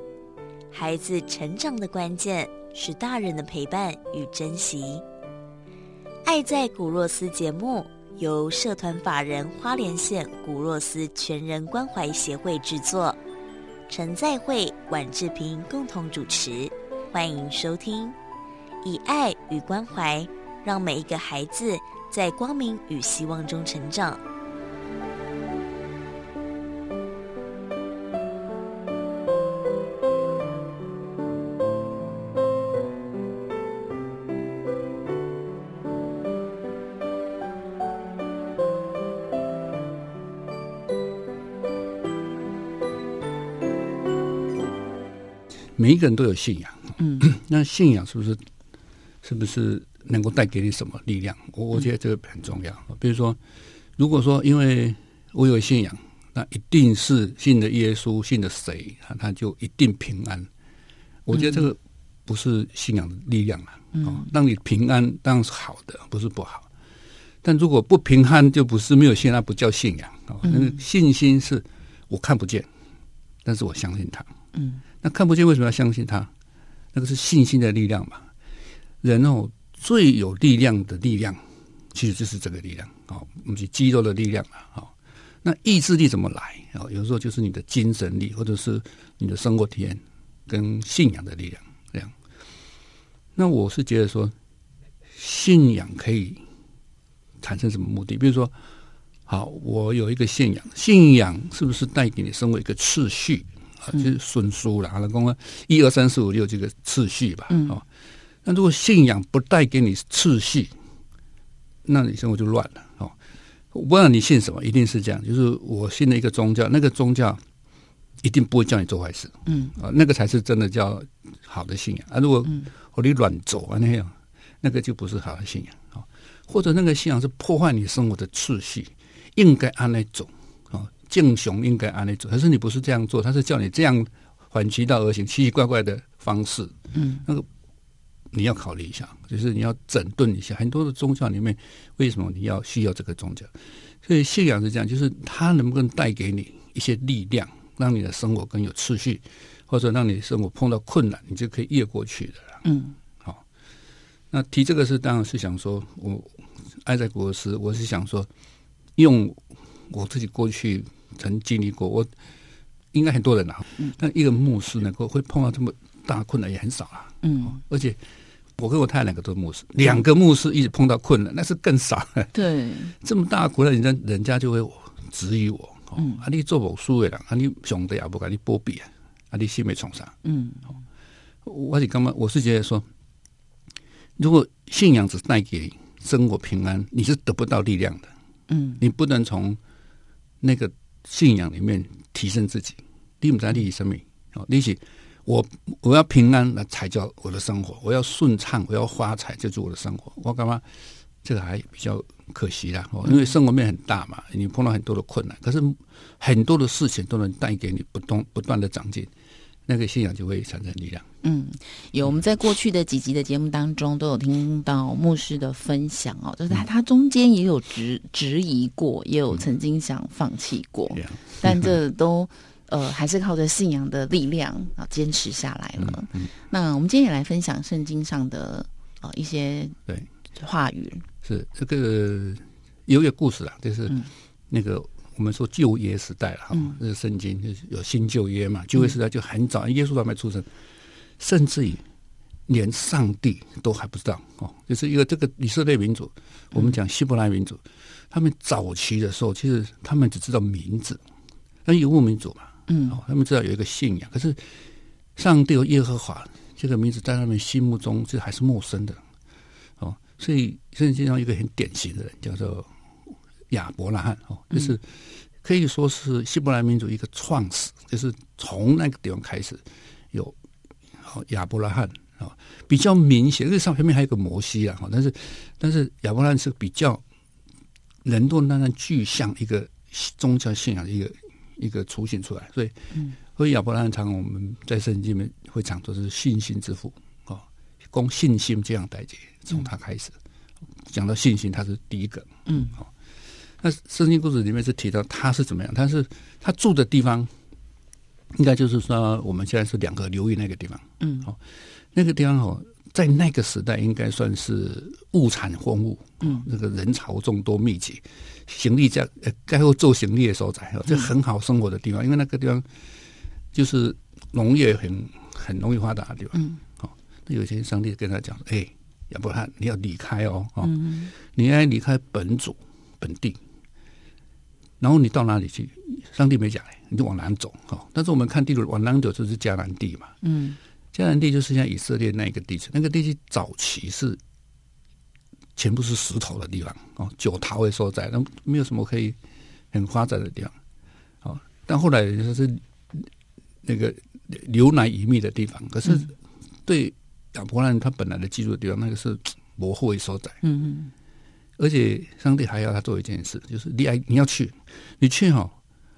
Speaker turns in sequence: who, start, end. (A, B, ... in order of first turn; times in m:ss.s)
0:00.7-0:05.0 A
0:06.2-0:13.2 A
0:13.9-0:18.2 A
0:18.8-0:24.2 A
0:45.8-0:48.4 B
0:49.2-0:53.4 B
0:54.0-1:00.5 B
1:01.3-1:06.7 B
1:04.0-1:04.2 C
1:07.4-1:12.7 B
1:10.5-1:10.7 C
1:13.4-1:14.3 B
1:14.6-1:14.8 C
1:15.0-1:16.3 B
1:16.9-1:18.3 B
1:19.0-1:21.4 B
1:21.9-1:24.9 B
1:25.4-1:32.1 B
1:33.4-1:34.3 B
1:35.1-1:36.4 B
1:37.4-1:38.5 B
1:39.3-1:47.8 B
1:48.4-1:50.7 B
1:51.8-1:53.1 B
1:53.7-1:57.4 B
1:58.2-2:17.4 B
1:59.5-1:59.7 C
2:16.9-2:17.2 C
2:18.3-2:23.5 B
2:24.0-2:32.6 B
2:32.6-2:33.0 C
2:34.3-2:38.3 B
2:39.0-2:42.1 B
2:42.9-2:48.0 B
2:47.2-2:47.6 C
2:48.6-2:52.3 B
2:52.3-2:52.9 C
2:53.0-3:00.1 B
2:56.0-2:56.2 C
3:00.2-3:00.8 C
3:01.4-3:02.8 B
3:04.2-3:08.1 B
3:08.5-3:08.8 C
3:08.8-3:09.6 B
3:10.4-3:20.6 B
3:21.2-3:29.1 B
3:29.7-3:31.0 B
3:31.2-3:49.8 C
3:40.9-3:41.8 B
3:45.8-3:46.3 B
3:50.3-3:51.0 C
3:51.2-4:00.5 B
4:01.2-4:01.8 B
4:02.5-4:07.6 B
4:08.1-4:11.0 B
4:11.6-4:14.4 B
4:12.7-4:13.0 C
4:15.2-4:19.0 B
4:19.8-4:22.7 B
4:23.5-4:24.8 B
4:25.4-4:29.6 B
4:31.0-4:37.0 B
4:38.0-4:50.1 B
4:50.9-4:52.8 B
4:52.5-4:52.8 C
4:53.6-4:57.3 B
4:58.3-5:01.4 B
5:01.0-5:01.3 C
5:01.9-5:12.6 B
5:13.5-5:23.4 B
5:20.6-5:21.1 C
5:24.8-5:30.1 B
5:30.2-5:30.6 C
5:30.9-5:34.2 B
5:35.6-5:39.2 B
5:39.7-5:40.6 B
5:41.2-5:43.1 B
5:43.6-5:46.1 B
5:46.6-5:50.4 B
5:50.4-5:50.9 C
5:51.6-5:55.5 B